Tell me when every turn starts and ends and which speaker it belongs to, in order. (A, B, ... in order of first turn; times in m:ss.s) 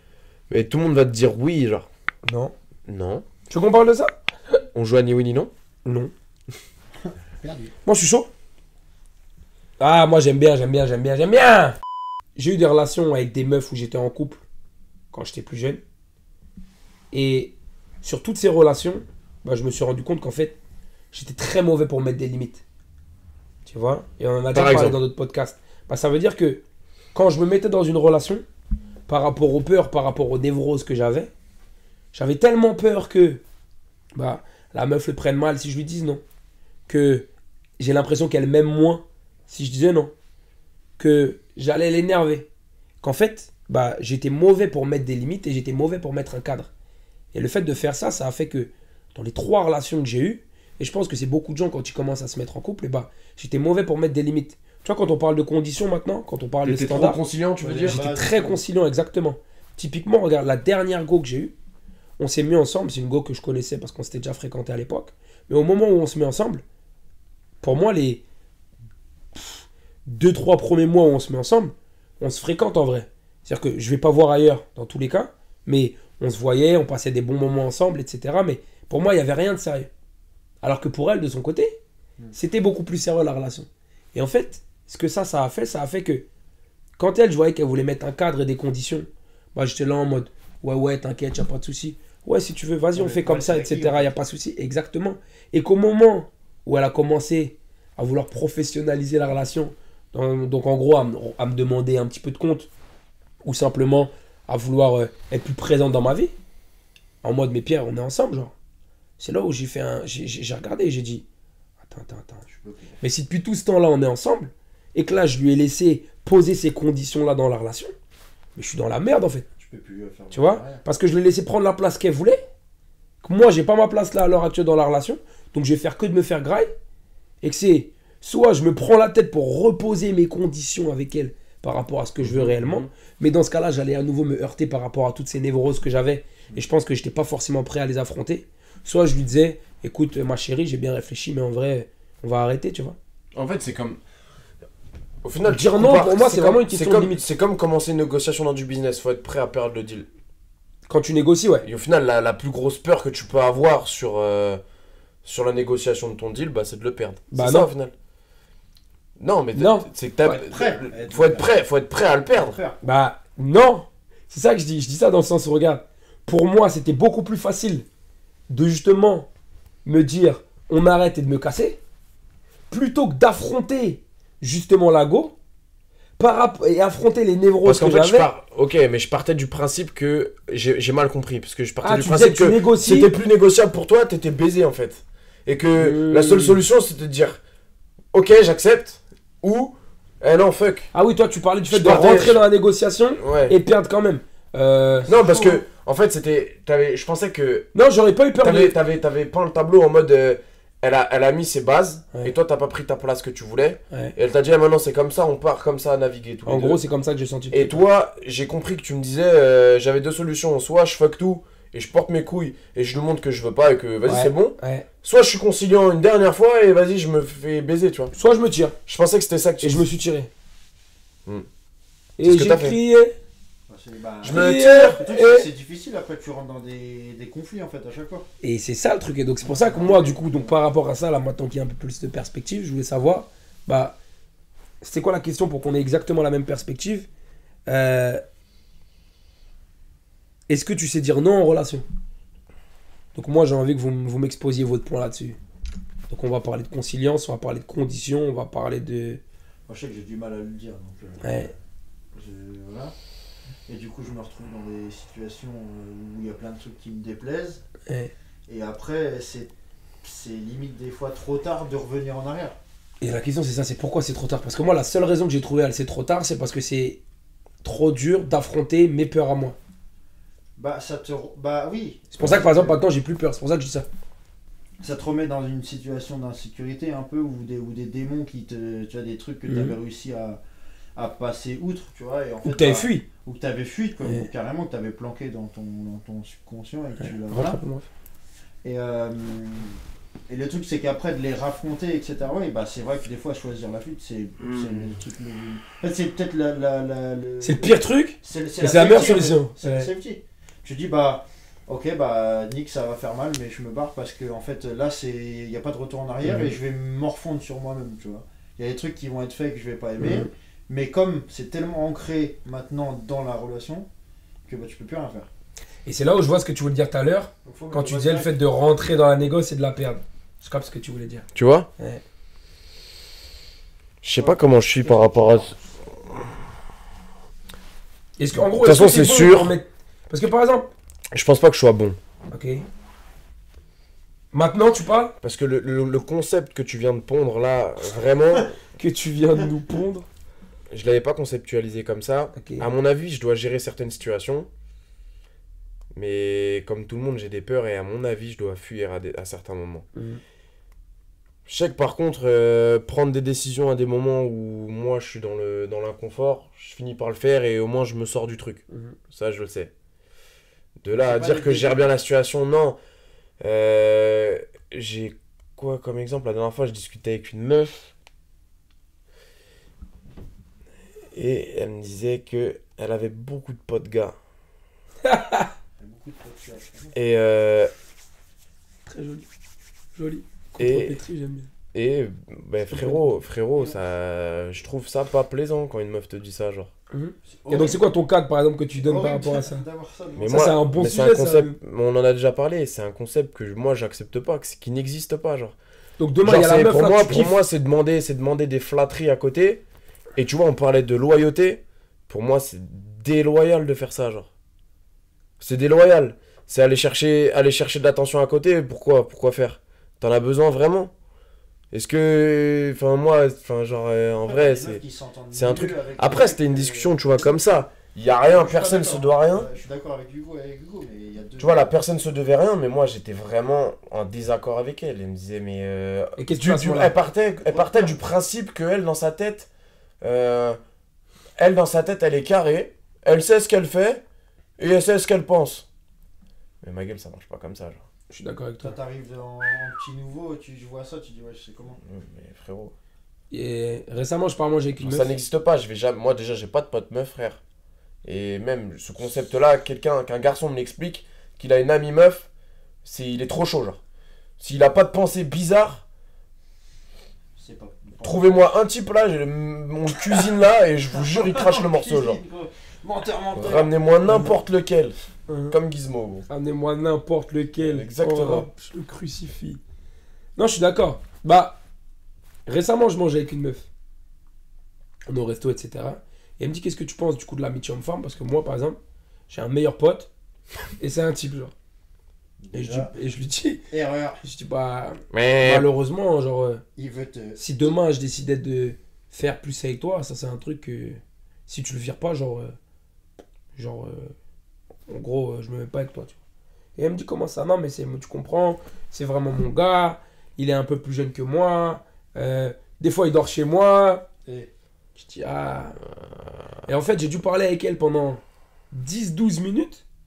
0:00.5-0:01.9 A
0:02.2-0:02.5 B
0:02.9-0:03.2 A
0:03.5-0:04.1 B
0:04.7-0:05.5 A
0:05.8-0:06.1 B
0:07.0-0:07.7 C
0:07.8-0:08.3 B
0:09.8-0:11.8 B
0:12.4-0:14.4 B
0:15.1-0:15.8 B
0:17.1-0:20.6 B
0:21.1-0:22.6 B
0:23.6-0:26.6 B
0:24.5-0:25.0 A
0:27.1-0:28.4 B
0:29.1-0:31.3 B
0:32.1-0:33.4 B
0:34.1-0:36.2 B
0:36.9-0:37.3 B
0:37.8-0:40.1 B
0:41.0-0:42.5 B
0:43.0-0:46.7 B
0:47.3-0:57.2 B
0:56.6-0:58.0 A
0:57.6-0:58.6 C
0:57.8-1:01.5 B
1:02.2-1:06.6 B
1:07.6-1:08.2 B
1:09.3-1:19.9 B
1:20.6-1:21.8 B
1:22.3-1:26.2 B
1:27.0-1:42.7 B
1:32.9-1:34.1 C
1:43.4-1:46.3 B
1:47.2-1:48.5 B
1:49.2-1:51.2 B
1:51.8-1:52.4 B
1:52.5-1:53.0 C
1:53.0-1:57.9 B
1:58.6-1:59.4 B
1:59.6-2:00.8 C
2:00.3-2:02.4 B
2:03.2-2:06.7 B
2:07.4-2:23.0 B
2:12.2-2:12.9 A
2:23.3-2:24.0 A
2:25.2-2:30.0 A
2:25.4-2:27.2 B
2:30.9-2:31.7 B
2:31.6-2:34.6 A
2:35.2-2:37.9 A
2:37.3-2:37.7 B
2:39.2-2:42.6 A
2:39.5-2:40.4 B
2:40.3-2:41.6 C
2:42.3-2:42.8 C
2:42.8-2:47.8 B
2:48.5-2:49.3 B
2:49.8-2:51.8 B
2:52.7-2:55.3 B
2:56.2-2:58.3 B
2:57.6-3:07.4 A
3:01.8-3:03.1 B
3:05.7-3:06.6 B
3:08.1-3:10.9 A
3:10.9-3:15.6 B
3:11.7-3:12.4 A
3:13.2-3:13.6 A
3:15.0-3:17.7 A
3:17.7-3:18.8 B
3:18.4-3:26.8 A
3:26.4-3:27.8 B
3:27.5-3:38.1 A
3:34.0-3:34.9 B
3:38.1-3:38.8 B
3:38.9-3:39.9 A
3:39.6-3:40.3 B
3:42.2-3:43.1 B
3:42.2-3:42.8 A
3:43.7-3:48.3 C
3:44.2-3:45.0 A
3:44.2-3:45.5 B
3:48.4-3:54.0 B
3:49.4-3:50.6 C
3:54.8-3:57.1 B
3:57.7-3:58.2 B
4:00.5-4:01.8 B
4:03.1-4:05.4 B
4:06.1-4:09.2 B
4:09.7-4:11.5 C
4:11.2-4:11.5 B
4:12.1-4:12.9 C
4:13.7-4:17.6 C
4:17.9-4:18.1 B
4:18.5-4:22.6 C
4:23.0-4:27.0 B
4:27.6-4:29.6 B
4:30.6-4:32.8 C
4:32.1-4:33.9 B
4:34.8-4:40.4 C
4:39.4-4:39.7 B
4:41.0-4:47.6 C
4:42.4-4:43.0 B
4:44.0-4:44.3 B
4:47.0-4:47.9 B
4:48.6-5:13.9 C
4:54.4-4:54.9 A
4:57.4-4:59.9 B
5:06.2-5:06.5 B
5:10.0-5:10.3 B
5:14.5-5:15.3 C
5:15.8-5:22.0 B
5:17.4-5:18.4 C
5:21.3-5:21.7 A
5:24.0-5:25.6 A
5:24.2-5:25.6 C
5:28.2-5:30.7 B
5:28.4-5:29.5 A
5:31.1-5:32.0 A
5:32.3-5:32.6 B
5:34.3-5:35.1 B
5:35.2-5:38.6 A
5:38.8-5:40.1 B
5:40.7-5:44.5 A
5:42.3-5:42.6 B
5:45.9-5:49.8 A
5:49.9-5:50.2 B
5:51.4-5:59.7 A
5:58.7-5:59.0 B
6:00.8-6:02.8 A
6:01.0-6:01.9 C
6:03.4-6:07.9 A
6:11.1-6:14.1 A
6:15.0-6:15.5 B
6:15.8-6:17.0 C
6:16.9-6:17.7 A
6:18.8-6:19.3 B
6:19.9-6:21.5 B
6:20.6-6:21.0 A
6:21.7-6:26.7 A
6:22.7-6:23.2 B
6:26.9-6:29.6 B
6:27.3-6:27.8 C
6:28.8-6:30.6 C
6:30.2-6:35.6 A
6:30.3-6:31.6 B
6:36.0-6:37.4 B
6:36.2-6:39.6 A
6:40.2-6:44.3 A
6:45.4-6:50.9 A
6:51.7-6:54.8 A
6:54.2-6:57.4 C
6:55.3-6:59.5 A
6:58.2-7:01.7 C
7:01.4-7:09.5 A
7:06.2-7:06.9 B
7:07.4-7:08.0 C
7:10.0-7:10.6 A
7:11.4-7:14.0 A
7:14.6-7:15.6 A
7:16.6-7:17.8 A
7:18.1-7:18.8 B
7:18.6-7:21.8 C
7:21.9-7:22.7 A
7:23.3-7:25.1 B
7:24.8-7:27.4 A
7:28.0-7:32.3 A
7:32.8-7:33.8 A
7:34.4-7:35.8 A
7:37.4-7:38.5 C
7:38.0-7:42.2 A
7:40.9-7:44.4 C
7:43.3-7:45.0 A
7:45.3-7:45.6 B
7:45.5-7:46.3 A
7:46.3-7:49.6 B
7:47.6-7:48.5 A
7:50.4-7:51.6 B
7:52.5-7:53.6 B
7:55.1-7:58.8 B
7:59.3-8:00.1 B
8:00.8-8:01.5 B
8:02.4-8:02.9 C
8:02.5-8:03.6 B
8:03.7-8:04.2 C
8:04.2-8:06.6 B
8:05.1-8:05.7 A
8:06.8-8:07.4 C
8:07.4-8:12.5 B
8:13.6-8:14.1 B
8:14.9-8:16.2 B
8:16.8-8:24.1 B
8:25.0-8:25.8 B
8:26.7-8:28.2 B
8:28.7-8:29.8 B